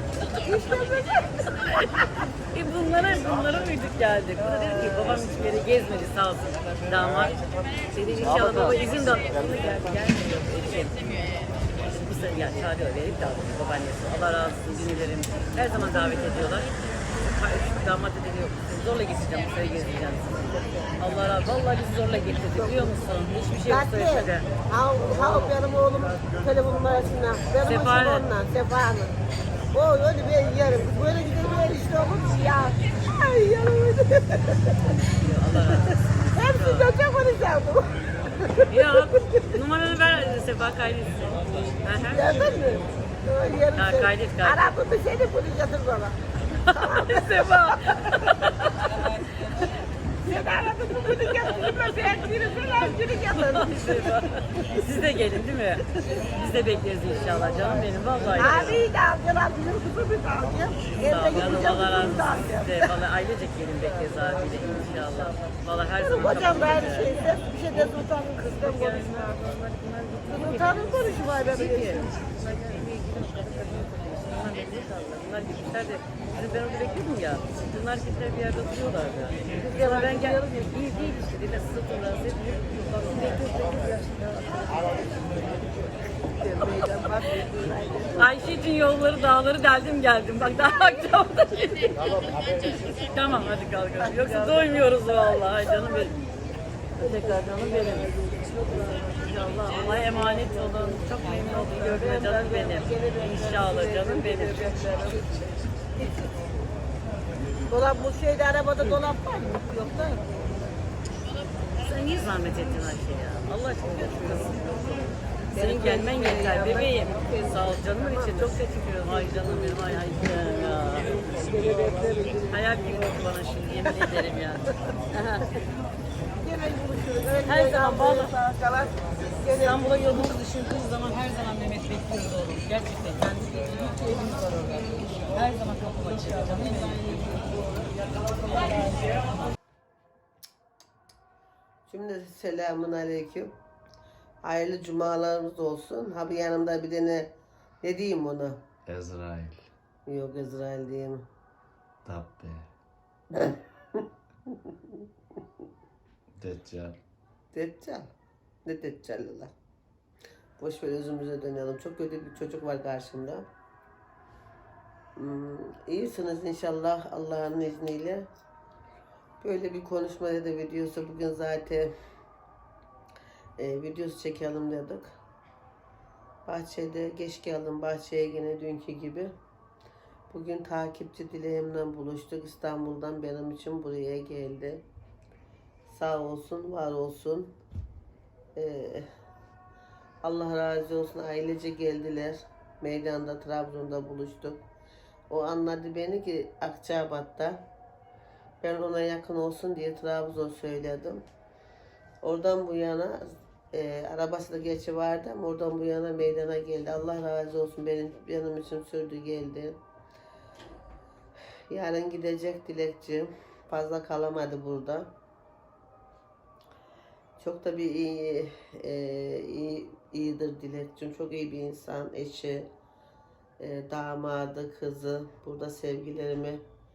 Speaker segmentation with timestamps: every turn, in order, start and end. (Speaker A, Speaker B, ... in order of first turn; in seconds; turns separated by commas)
Speaker A: 0.3-1.8, Speaker B: 1.6-24.5, Speaker A: 4.4-5.4, Speaker A: 20.5-20.9, Speaker A: 22.5-23.0, Speaker A: 23.6-29.1, Speaker B: 27.6-28.3, Speaker A: 29.7-35.0, Speaker B: 35.1-36.9, Speaker A: 35.7-39.5, Speaker B: 38.7-42.8, Speaker A: 42.1-46.2, Speaker B: 43.7-44.7, Speaker B: 46.7-48.8, Speaker A: 46.8-48.7, Speaker A: 50.3-54.9, Speaker B: 52.0-58.9, Speaker A: 57.2-63.0, Speaker B: 61.0-67.3, Speaker A: 63.8-69.4, Speaker B: 68.4-85.7, Speaker A: 70.3-72.2, Speaker A: 79.6-80.7, Speaker A: 86.3-88.3, Speaker B: 88.2-96.1, Speaker A: 94.0-96.1, Speaker B: 97.0-98.1, Speaker A: 97.0-105.3, Speaker B: 99.7-105.0, Speaker A: 106.0-106.3, Speaker A: 107.7-110.2, Speaker B: 111.8-114.6, Speaker A: 113.8-115.0, Speaker A: 115.5-123.2, Speaker B: 115.5-121.1, Speaker B: 122.5-124.7, Speaker A: 125.1-125.5, Speaker A: 126.4-130.1, Speaker B: 127.5-128.3, Speaker B: 129.6-137.4, Speaker A: 141.9-143.5, Speaker A: 144.4-147.3, Speaker A: 147.8-148.6, Speaker C: 148.9-149.6, Speaker A: 150.1-151.2, Speaker C: 152.1-152.7, Speaker A: 153.3-155.0, Speaker C: 156.4-157.0, Speaker A: 157.5-158.1, Speaker A: 158.7-159.5, Speaker A: 160.6-163.5, Speaker A: 165.2-168.3, Speaker A: 169.4-171.9, Speaker A: 173.6-175.2, Speaker A: 176.5-179.3, Speaker A: 180.3-184.8, Speaker A: 185.9-187.5, Speaker A: 188.6-189.1, Speaker A: 190.2-194.6, Speaker A: 195.3-197.6, Speaker A: 198.6-201.2, Speaker A: 202.2-209.8, Speaker A: 211.7-215.1, Speaker A: 217.4-222.7, Speaker A: 223.6-226.6